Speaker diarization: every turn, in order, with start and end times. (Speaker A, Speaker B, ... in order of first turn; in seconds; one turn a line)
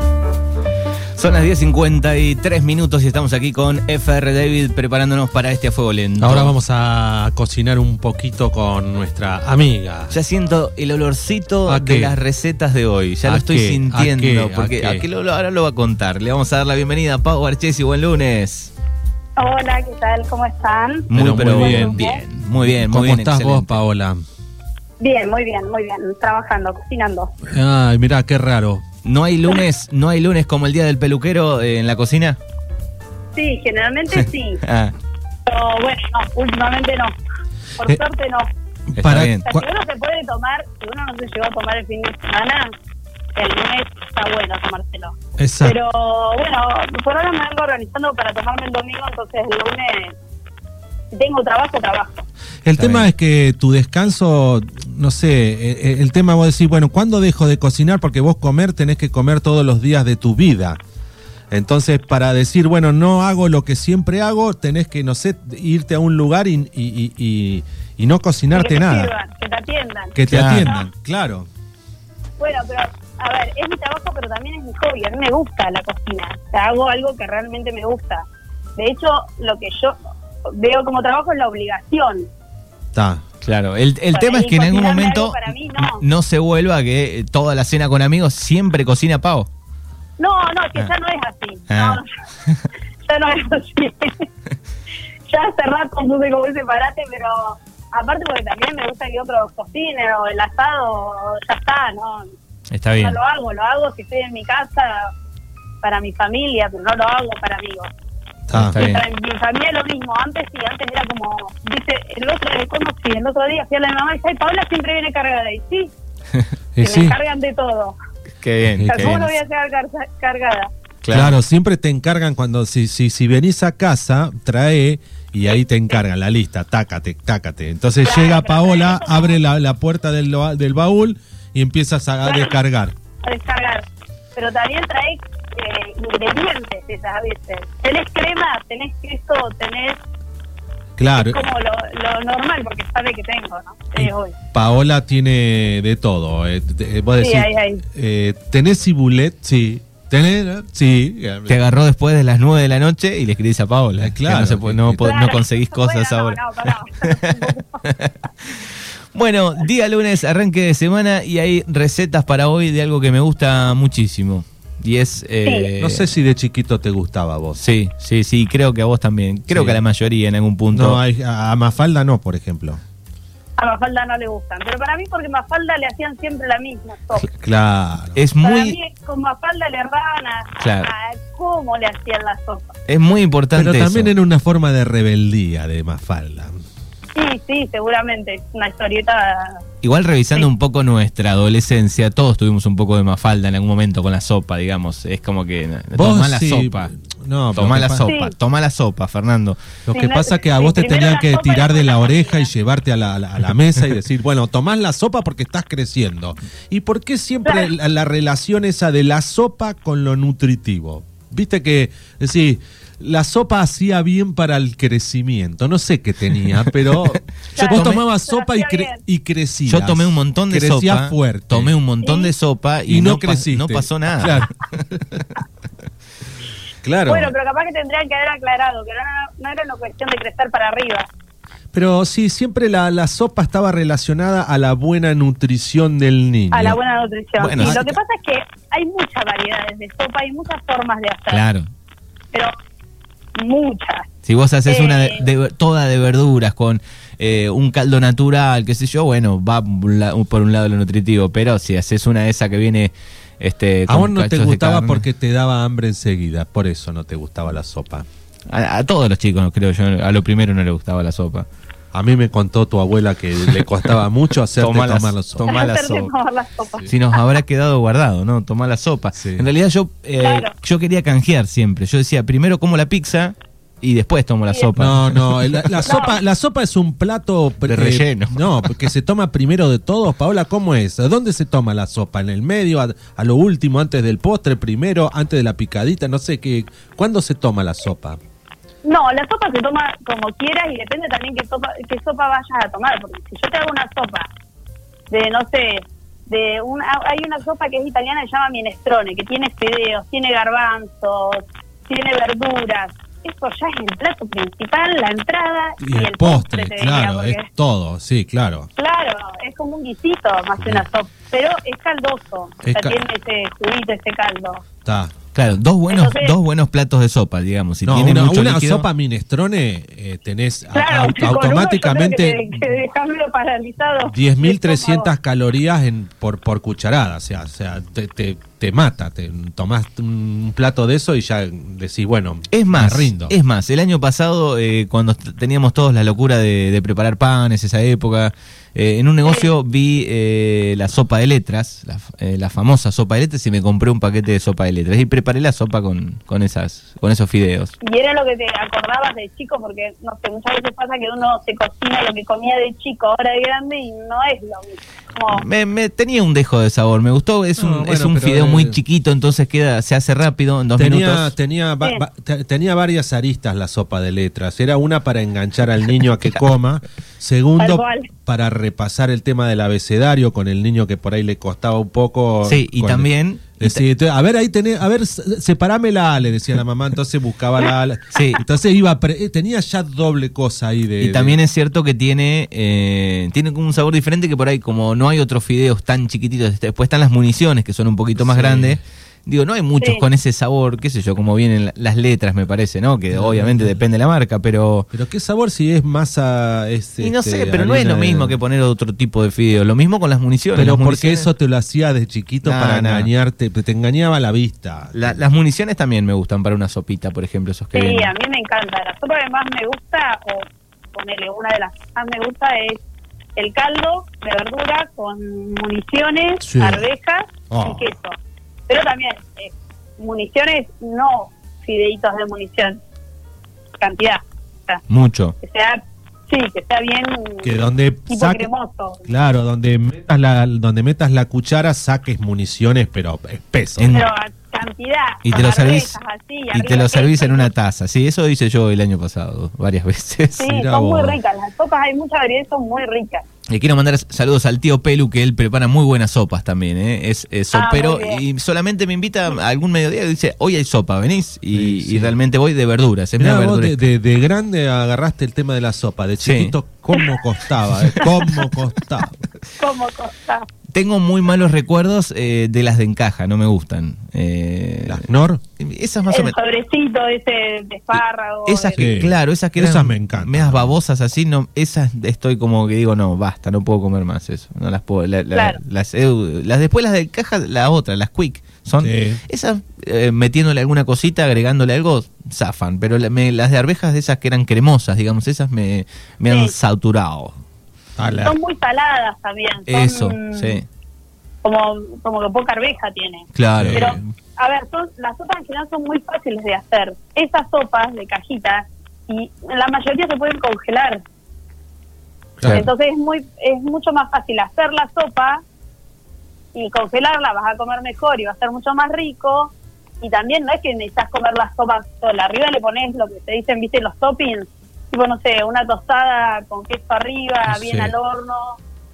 Speaker A: 1.2-6.5
Speaker B: 6.2-10.1
Speaker A: 10.1-18.7
Speaker B: 11.7-12.1
Speaker B: 13.2-15.0
Speaker C: 19.4-22.2
Speaker A: 21.1-23.8
Speaker B: 21.1-24.2
Speaker C: 25.0-27.3
Speaker B: 27.4-28.8
Speaker A: 29.0-32.4
Speaker C: 33.4-34.6
Speaker A: 34.1-34.9
Speaker C: 35.5-37.1
Speaker C: 37.8-38.5
Speaker B: 38.9-39.7
Speaker A: 38.9-39.5
Speaker C: 39.4-42.7
Speaker C: 43.4-50.1
Speaker B: 45.4-45.8
Speaker C: 51.1-52.2
Speaker B: 52.6-60.8
Speaker A: 52.8-53.1
Speaker B: 61.5-69.1
Speaker C: 68.5-70.9
Speaker B: 70.1-71.5
Speaker A: 70.3-70.7
Speaker C: 72.4-82.3
Speaker B: 82.9-83.2
Speaker A: 83.4-89.5
Speaker C: 84.1-86.0
Speaker C: 90.2-92.1
Speaker A: 91.7-92.6
Speaker C: 93.1-94.3
Speaker C: 95.3-102.3
Speaker A: 102.7-103.2
Speaker C: 103.0-105.1
Speaker C: 105.8-107.9
Speaker B: 108.5-108.8
Speaker A: 108.5-109.0
Speaker C: 108.7-115.9
Speaker B: 116.7-117.2
Speaker C: 116.8-118.0
Speaker A: 118.4-119.2
Speaker B: 118.7-119.3
Speaker C: 118.9-120.7
Speaker A: 121.0-121.4
Speaker B: 121.1-132.9
Speaker C: 128.0-129.4
Speaker C: 132.2-132.6
Speaker C: 133.2-140.0
Speaker B: 141.0-141.4
Speaker C: 141.1-144.3
Speaker B: 143.9-151.6
Speaker C: 147.2-147.8
Speaker A: 151.4-166.1
Speaker B: 154.0-155.1
Speaker C: 155.0-157.8
Speaker C: 165.4-165.7
Speaker B: 165.8-167.6
Speaker A: 167.6-171.0
Speaker B: 169.5-169.8
Speaker B: 170.7-172.8
Speaker C: 173.6-177.3
Speaker B: 177.2-178.2
Speaker A: 178.1-178.8
Speaker C: 178.4-182.7
Speaker A: 180.6-180.9
Speaker A: 182.9-184.1
Speaker B: 183.5-186.6
Speaker C: 187.1-189.6
Speaker A: 189.8-196.9
Speaker B: 195.9-198.1
Speaker A: 197.5-199.6
Speaker C: 198.0-198.3
Speaker B: 199.8-221.7
Speaker C: 199.9-202.5
Speaker C: 207.4-207.7
Speaker C: 217.5-219.0
Speaker A: 217.7-218.0
Speaker A: 219.7-224.4
Speaker C: 222.0-222.3
Speaker B: 222.9-225.2
Speaker B: 226.8-227.3
Speaker C: 227.1-231.1
Speaker B: 231.7-236.8
Speaker C: 236.5-241.4
Speaker A: 237.4-237.9
Speaker B: 237.4-238.0
Speaker A: 241.3-241.6
Speaker C: 243.3-244.1
Speaker A: 244.2-255.1
Speaker C: 244.7-245.3
Speaker B: 253.9-258.1
Speaker A: 258.5-261.4
Speaker B: 261.9-265.6
Speaker A: 264.5-266.1
Speaker C: 265.5-267.3
Speaker A: 266.9-275.9
Speaker B: 269.2-269.5
Speaker C: 270.2-270.5
Speaker B: 274.8-288.2
Speaker C: 275.9-276.2
Speaker A: 277.6-278.6
Speaker C: 288.8-294.3
Speaker C: 295.1-307.5
Speaker B: 305.8-308.7
Speaker C: 308.8-314.6
Speaker B: 310.6-310.8
Speaker B: 312.6-313.0
Speaker B: 314.8-315.1
Speaker A: 315.3-318.9
Speaker C: 315.9-316.3
Speaker B: 317.8-322.6
Speaker C: 320.7-325.1
Speaker B: 324.1-333.3
Speaker A: 332.5-347.7
Speaker C: 347.8-355.4
Speaker A: 355.3-361.3
Speaker B: 357.6-358.8
Speaker B: 360.8-381.4
Speaker C: 367.6-368.1
Speaker A: 372.4-373.8
Speaker A: 378.1-378.4
Speaker A: 381.0-394.9
Speaker B: 388.1-388.8
Speaker C: 389.8-390.0
Speaker B: 393.1-393.8
Speaker B: 394.9-398.3
Speaker A: 397.0-401.3
Speaker B: 400.5-405.2
Speaker A: 402.4-403.1
Speaker A: 404.9-408.1
Speaker C: 407.7-412.8
Speaker C: 413.4-418.2
Speaker B: 416.4-416.9
Speaker B: 417.5-417.9
Speaker C: 418.7-422.8
Speaker C: 423.8-424.8
Speaker A: 424.9-425.4
Speaker C: 425.4-429.1
Speaker B: 427.4-428.5
Speaker B: 429.1-434.1
Speaker A: 433.8-434.1
Speaker C: 433.9-437.5
Speaker A: 435.2-435.9
Speaker A: 436.5-440.5
Speaker C: 440.4-443.2
Speaker B: 440.4-441.2
Speaker A: 443.5-453.9
Speaker C: 447.5-448.2
Speaker B: 451.5-452.2
Speaker B: 453.2-459.2
Speaker A: 456.2-456.5
Speaker C: 456.9-457.2
Speaker C: 458.0-458.3
Speaker C: 459.6-460.5
Speaker A: 460.7-465.1
Speaker B: 464.8-465.4
Speaker A: 465.6-466.3
Speaker C: 466.1-468.9
Speaker A: 468.5-487.3
Speaker B: 468.8-470.8
Speaker C: 475.3-475.6
Speaker B: 478.8-479.2
Speaker C: 486.3-486.5
Speaker B: 488.0-488.3
Speaker C: 488.2-490.6
Speaker A: 489.7-490.6
Speaker C: 491.4-501.0
Speaker A: 493.3-494.0
Speaker B: 493.6-494.0
Speaker B: 502.4-502.6
Speaker C: 502.5-505.4
Speaker C: 506.5-518.6
Speaker B: 517.5-517.9